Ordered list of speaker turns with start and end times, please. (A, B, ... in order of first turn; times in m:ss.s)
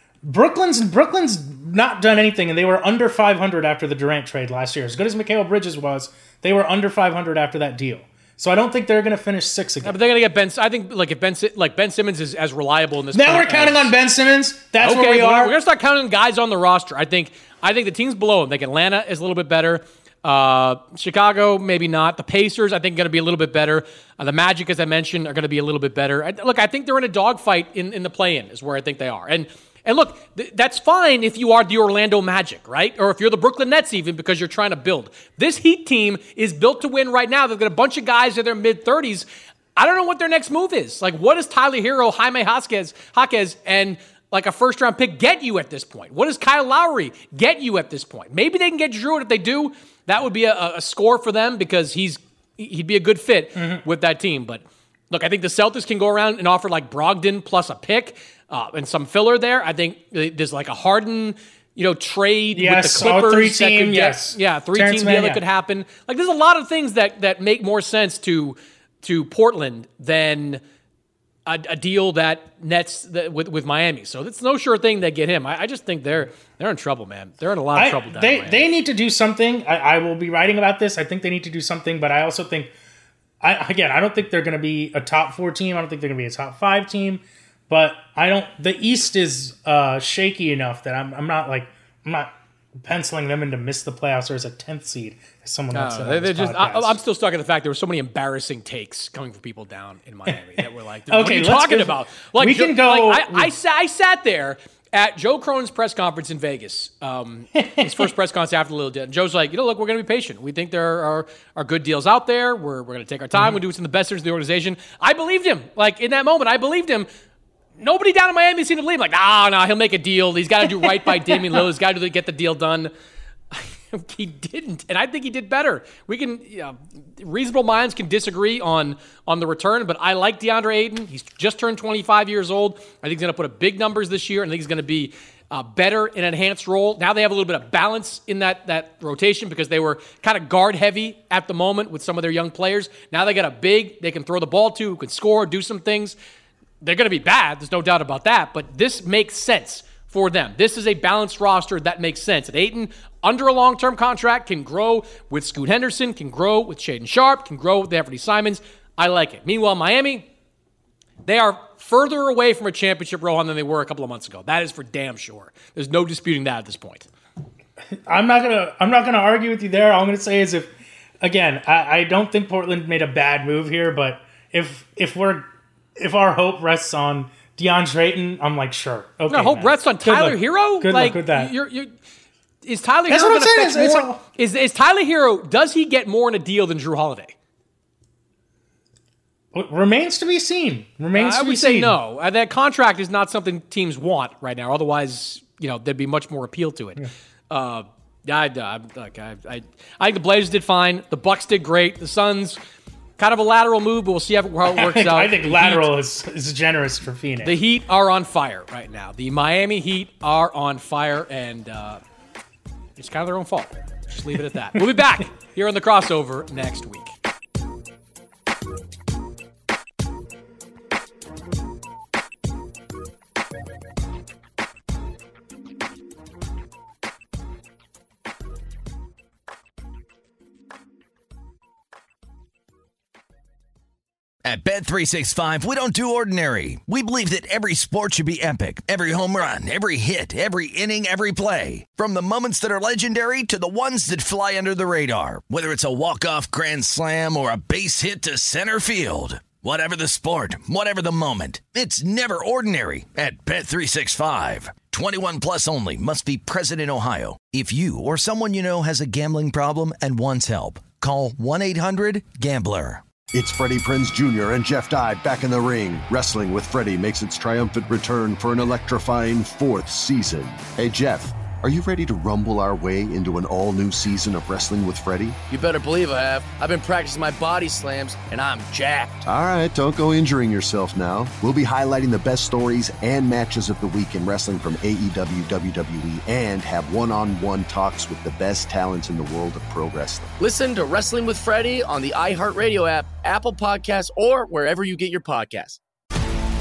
0:00.2-0:10.0 A
0:09.8-0:13.9 B
0:13.1-0:15.5 A
0:14.8-1:10.6 B
0:53.6-0:53.8 A
1:02.5-1:05.4 A
1:11.5-1:18.6 B
1:17.8-1:22.7 A
1:23.4-1:32.3 A
1:32.8-1:37.0 A
1:35.7-1:57.1 B
1:41.1-1:43.5 A
1:47.6-1:48.1 A
1:57.8-2:02.9 B
2:00.8-2:01.3 A
2:03.5-2:26.2 B
2:26.8-2:40.3 B
2:41.2-2:47.1 B
2:48.1-3:01.5 A
2:59.3-3:01.9 B
3:02.6-3:07.4 B
3:03.1-3:04.2 A
3:09.5-3:12.0 A
3:11.1-3:22.6 B
3:23.2-3:25.9 B
3:24.7-3:27.5 A
3:27.4-3:32.0 B
3:33.0-3:37.1 B
3:54.4-4:23.0 C
4:23.3-4:35.4 D
4:35.5-4:39.2 E
4:39.3-4:50.3 D
4:50.4-4:55.8 E